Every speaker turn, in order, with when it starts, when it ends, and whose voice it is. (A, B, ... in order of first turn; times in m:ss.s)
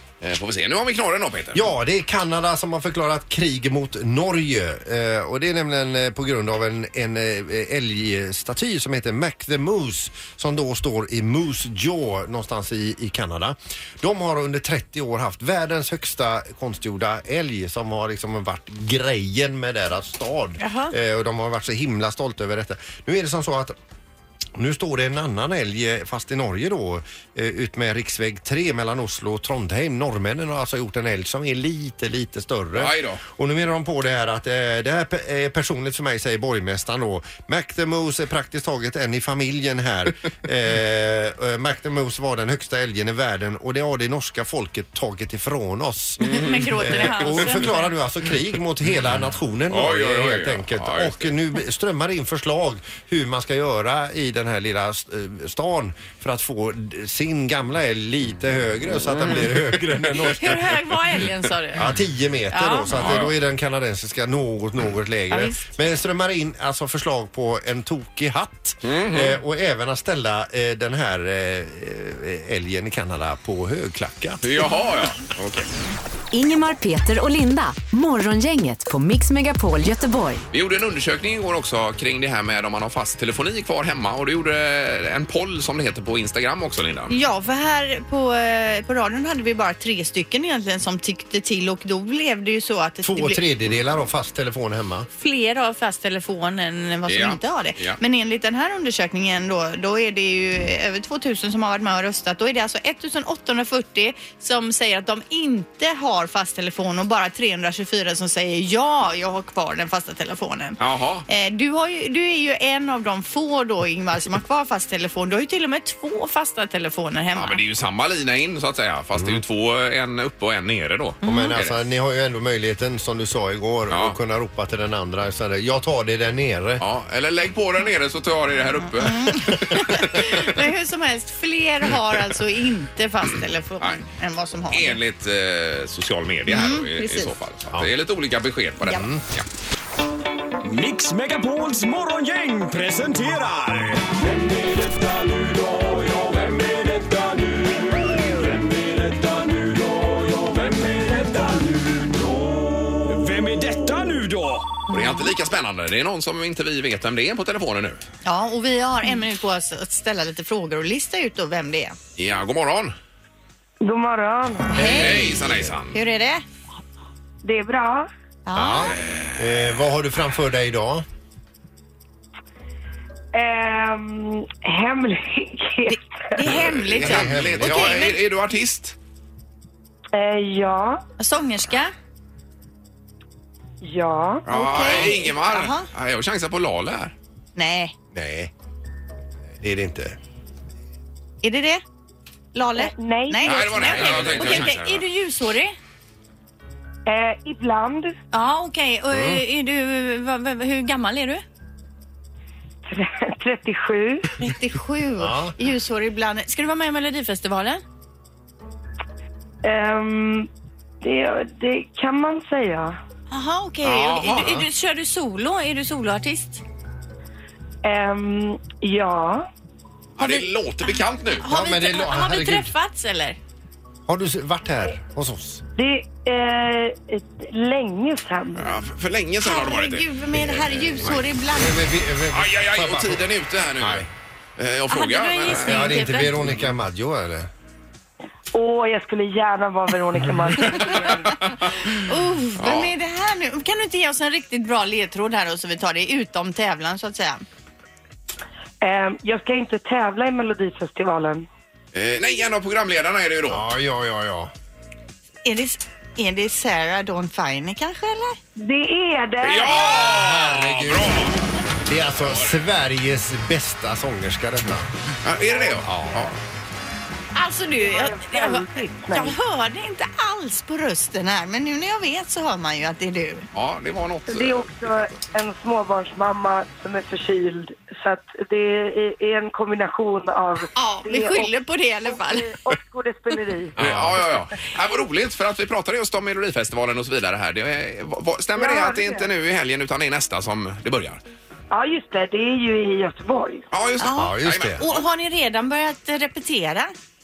0:00.2-0:01.7 A
0:01.5-0:23.7 B
0:20.6-0:21.0 C
0:24.6-1:00.7 B
0:32.8-0:33.2 A
0:46.2-0:47.7 A
0:46.2-0:47.9 C
0:49.7-0:51.3 A
0:59.1-0:59.6 A
1:00.1-1:01.9 C
1:01.8-1:14.6 B
1:02.5-1:03.2 C
1:02.9-1:03.4 A
1:05.3-1:05.8 C
1:08.8-1:09.4 A
1:14.4-1:15.7 A
1:16.3-1:20.4 D
1:20.5-1:27.1 A
1:27.1-1:33.4 C
1:33.0-1:35.1 B
1:35.1-1:57.6 C
1:37.1-1:38.0 A
1:50.8-1:51.2 A
1:57.4-2:01.8 A
2:01.2-2:01.6 C
2:01.2-2:06.8 B
2:03.9-2:04.2 A
2:06.8-2:10.5 A
2:09.0-2:15.0 C
2:14.7-2:19.5 A
2:16.5-2:17.3 C
2:18.8-2:19.1 C
2:18.9-2:19.2 B
2:20.6-2:32.4 E
2:33.0-2:34.8 E
2:34.9-2:38.0 A
2:34.9-2:35.3 C
2:38.2-2:42.0 C
2:42.2-2:42.9 A
2:43.8-2:44.8 F
2:44.7-2:46.4 C
2:44.8-2:46.0 A
2:47.4-2:48.1 F
2:48.5-2:49.0 C
2:48.6-2:51.0 B
2:49.0-2:49.7 A
2:53.3-2:56.4 F
2:55.9-2:58.2 C
2:56.5-2:59.0 A
2:56.9-2:58.0 B
3:00.1-3:01.0 F
3:01.2-3:01.9 C
3:03.8-3:04.5 F
3:04.5-3:07.1 A
3:04.5-3:05.8 C
3:07.6-3:07.9 C
3:08.1-3:08.5 B
3:09.6-3:10.2 B
3:11.4-3:11.8 C
3:12.5-3:15.7 C
3:12.8-3:14.4 F
3:13.4-3:15.0 A
3:17.1-3:18.2 F
3:18.3-3:21.4 C
3:19.1-3:19.4 B
3:22.9-3:24.3 F
3:24.4-3:27.8 C
3:25.2-3:25.5 B
3:29.6-3:30.5 F
3:31.0-3:33.0 F
3:33.3-3:36.6 C
3:33.8-3:34.5 A
3:34.4-3:34.7 B
3:37.8-3:39.5 F
3:40.2-3:41.5 A
3:40.2-3:40.4 C
3:41.4-3:43.4 C
3:41.4-3:42.7 B
3:44.1-3:45.6 B
3:45.8-3:48.8 F
3:48.6-3:50.1 A
3:49.4-3:51.8 C
3:50.3-3:53.2 B
3:52.3-3:56.7 A
3:53.8-3:54.1 B
3:54.9-3:56.4 C
3:55.5-3:57.5 B
3:58.5-4:01.4 F
4:01.4-4:01.7 A
4:01.9-4:07.4 C
4:02.6-4:02.9 A
4:08.8-4:11.4 F
4:11.9-4:13.7 A
4:13.5-4:14.5 B
4:15.4-4:18.4 C
4:18.6-4:19.8 F
4:19.4-4:22.6 A
4:19.8-4:24.9 B
4:25.2-4:26.4 A
4:25.8-4:26.2 B
4:27.3-4:33.4 C
4:27.8-4:29.4 F
4:33.5-4:34.8 A
4:34.3-4:43.8 F
4:40.8-4:42.5 C
4:43.8-4:51.2 A
4:43.8-4:44.1 B
4:48.6-4:49.3 F
4:51.7-4:53.6 F
4:53.7-4:55.0 A
4:54.0-4:56.9 C
4:54.1-4:54.8 B